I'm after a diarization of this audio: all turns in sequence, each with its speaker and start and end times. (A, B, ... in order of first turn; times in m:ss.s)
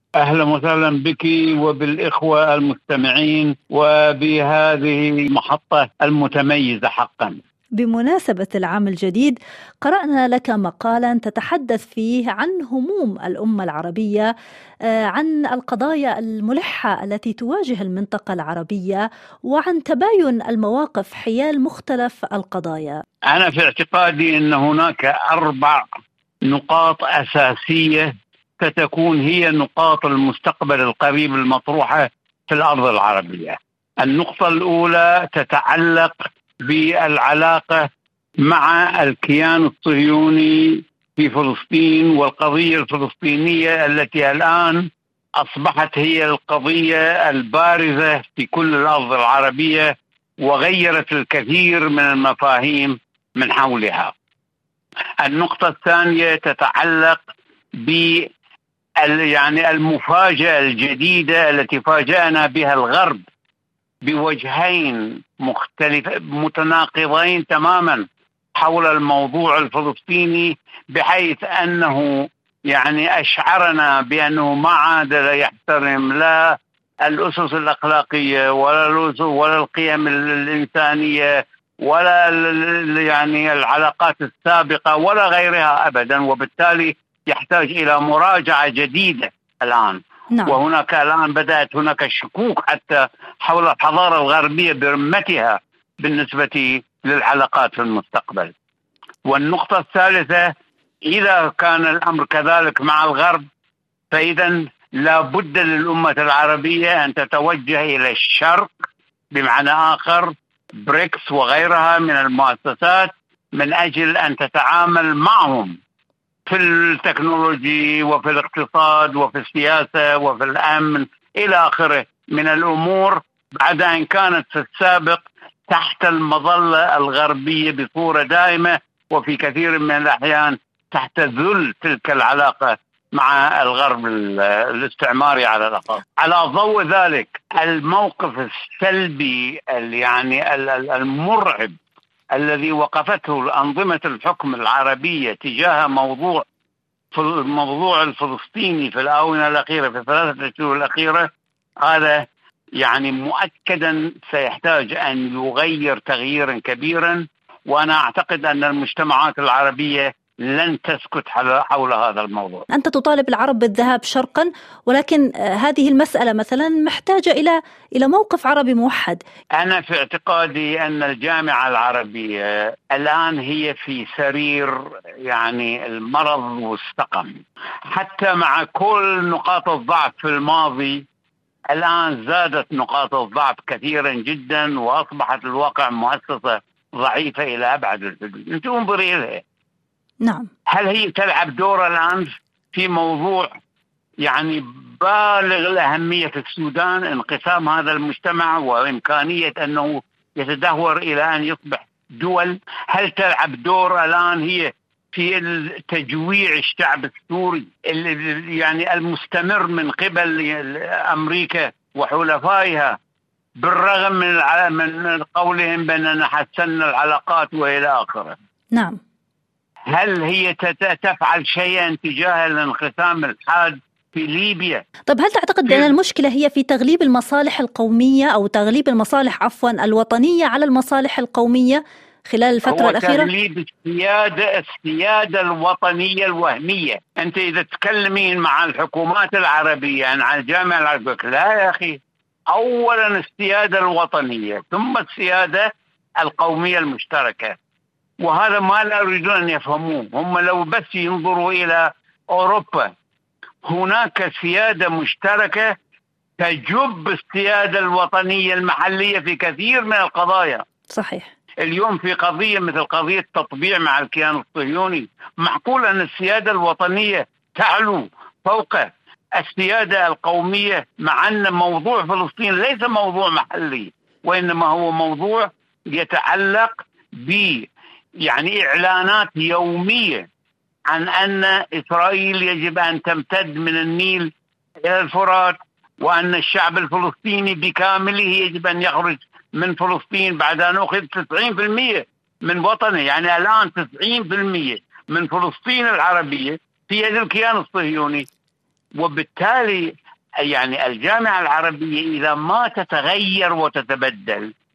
0:00.2-0:07.4 A
0:07.8-0:14.3 B
0:14.9-0:23.0 B
0:23.3-0:25.8 A
0:26.5-0:37.9 A
0:38.4-0:44.8 A
0:45.4-0:54.1 A
0:55.2-0:57.2 A
0:57.8-0:58.3 A
0:59.0-1:03.2 A
1:04.0-1:08.0 A
1:08.6-1:16.5 A
1:17.0-1:38.5 A
1:30.3-1:30.6 B
1:39.3-1:40.5 A
1:41.1-1:43.4 A
1:44.1-1:48.7 A
1:49.3-1:55.8 A
1:56.5-2:21.8 A
2:22.3-2:26.5 A
2:27.1-2:31.3 A
2:31.8-2:32.2 A
2:32.8-2:42.7 A
2:42.7-2:49.2 B
2:49.6-3:01.0 A
3:01.7-3:09.4 A
3:10.2-3:10.5 B
3:10.7-3:13.5 A
3:14.2-3:33.0 A
3:33.6-3:38.4 A
3:39.9-3:44.8 A
3:45.1-3:53.3 B
3:52.7-4:02.0 A
4:02.5-4:05.7 A
4:06.2-4:07.6 A
4:08.2-4:12.9 A
4:13.7-4:15.7 A
4:16.4-4:20.6 A
4:20.9-4:21.3 B
4:21.6-4:37.7 A
4:38.2-4:40.2 A
4:40.9-4:44.3 A
4:44.8-4:58.3 A
4:59.0-5:04.5 A